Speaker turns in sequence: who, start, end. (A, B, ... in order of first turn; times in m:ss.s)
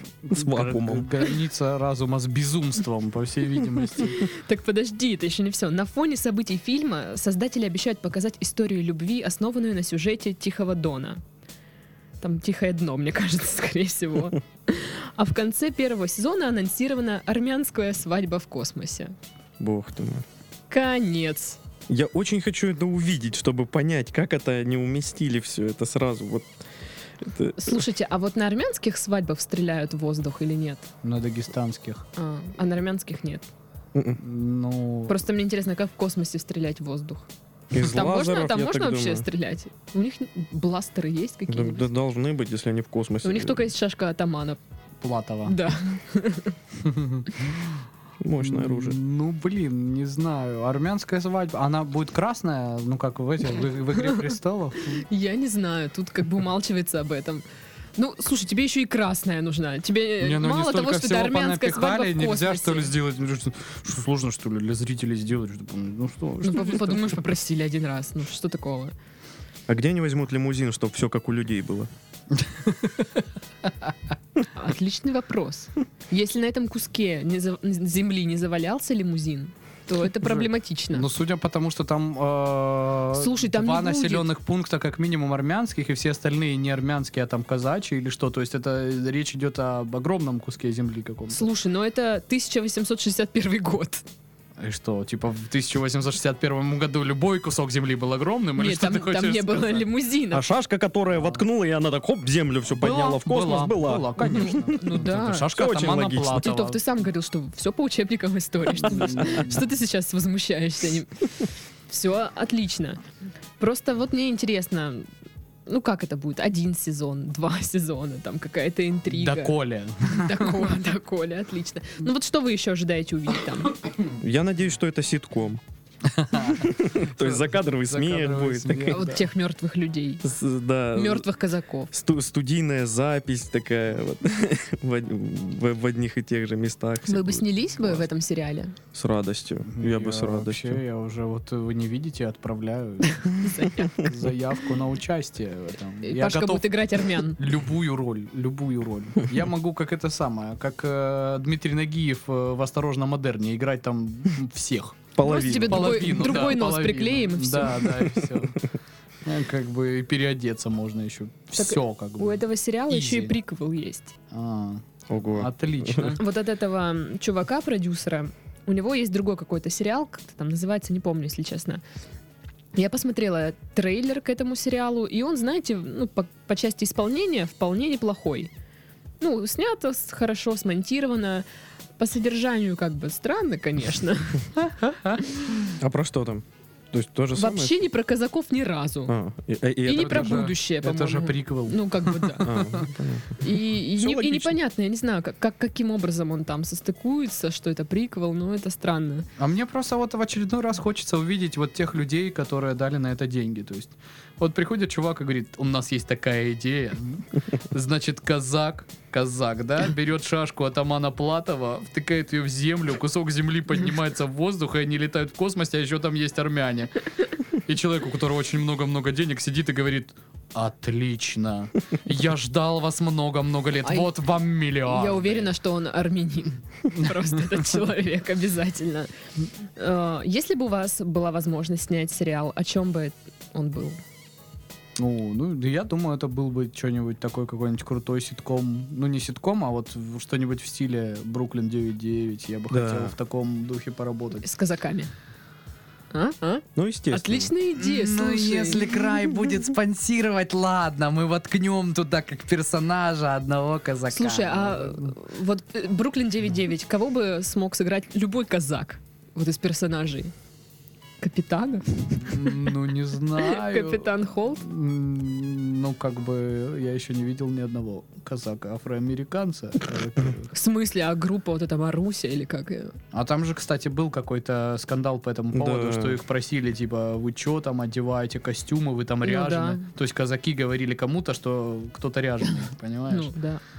0:00.2-0:04.3 A
0:00.3-0:01.1 B
0:04.0-0:11.2 C
0:12.2-0:19.1 C
0:19.6-0:20.2 B
0:20.7-0:21.6 C
0:21.9-0:26.5 B
0:27.2-0:27.8 B
0:27.6-0:30.9 C
0:31.0-0:32.0 A
0:32.2-0:33.5 C
0:33.9-0:34.2 B
0:34.2-0:35.1 A
0:35.1-0:41.9 C
0:37.7-0:39.3 B
0:41.5-0:43.7 B
0:43.2-0:44.6 C
0:45.0-0:45.6 A
0:45.5-0:46.6 C
0:46.8-0:47.8 A
0:48.2-0:49.0 B
0:48.4-0:55.0 A
0:55.1-0:57.4 C
0:58.0-1:02.9 C
1:00.2-1:07.3 A
1:06.4-1:08.9 C
1:09.7-1:11.9 B
1:14.6-1:21.1 C
1:20.2-1:31.5 A
1:23.1-1:24.3 C
1:31.3-1:34.0 C
1:34.6-1:39.9 A
1:38.6-1:40.4 C
1:40.3-1:44.6 B
1:42.7-1:46.8 A
1:44.2-1:45.5 C
1:45.5-1:46.5 B
1:46.3-1:53.0 C
1:48.8-1:49.6 A
1:48.9-1:49.4 B
1:53.6-1:55.1 C
1:55.7-2:03.8 C
1:59.1-2:00.7 A
2:04.2-2:05.6 B
2:06.1-2:09.2 A
2:06.4-2:09.0 B
2:08.9-2:10.3 C
2:10.2-2:11.2 B
2:10.9-2:11.9 C
2:11.9-2:18.0 B
2:17.1-2:18.8 C
2:18.9-2:20.8 B
2:19.7-2:38.6 A
2:23.1-2:24.0 C
2:26.0-2:27.4 C
2:35.1-2:36.3 B
2:35.2-2:37.9 C
2:39.2-2:43.4 A
2:41.6-2:44.1 C
2:44.3-2:44.8 A
2:45.1-2:46.2 B
2:45.4-2:46.2 A
2:46.2-2:51.8 C
2:52.8-2:58.5 C
2:59.2-3:01.5 C
3:02.0-3:04.6 C
3:05.8-3:07.8 B
3:07.4-3:09.1 C
3:09.1-3:10.5 B
3:09.8-3:12.6 C
3:09.9-3:12.9 A
3:12.4-3:14.6 B
3:13.4-3:19.2 C
3:19.4-3:37.1 A
3:37.6-3:45.5 A
3:43.8-3:44.1 C
3:44.8-3:49.1 C
3:49.8-3:54.0 C
3:55.0-4:04.4 A
4:02.7-4:03.1 B
4:04.4-4:05.1 C
4:06.1-4:08.9 C
4:06.8-4:07.5 B
4:07.8-4:15.2 A
4:14.1-4:20.3 C
4:21.2-4:22.7 C
4:22.2-4:30.5 A
4:23.4-4:24.6 C
4:30.5-4:33.0 C
4:33.1-4:43.3 A
4:35.5-4:36.2 B
4:39.2-4:39.8 C
4:43.1-4:43.6 C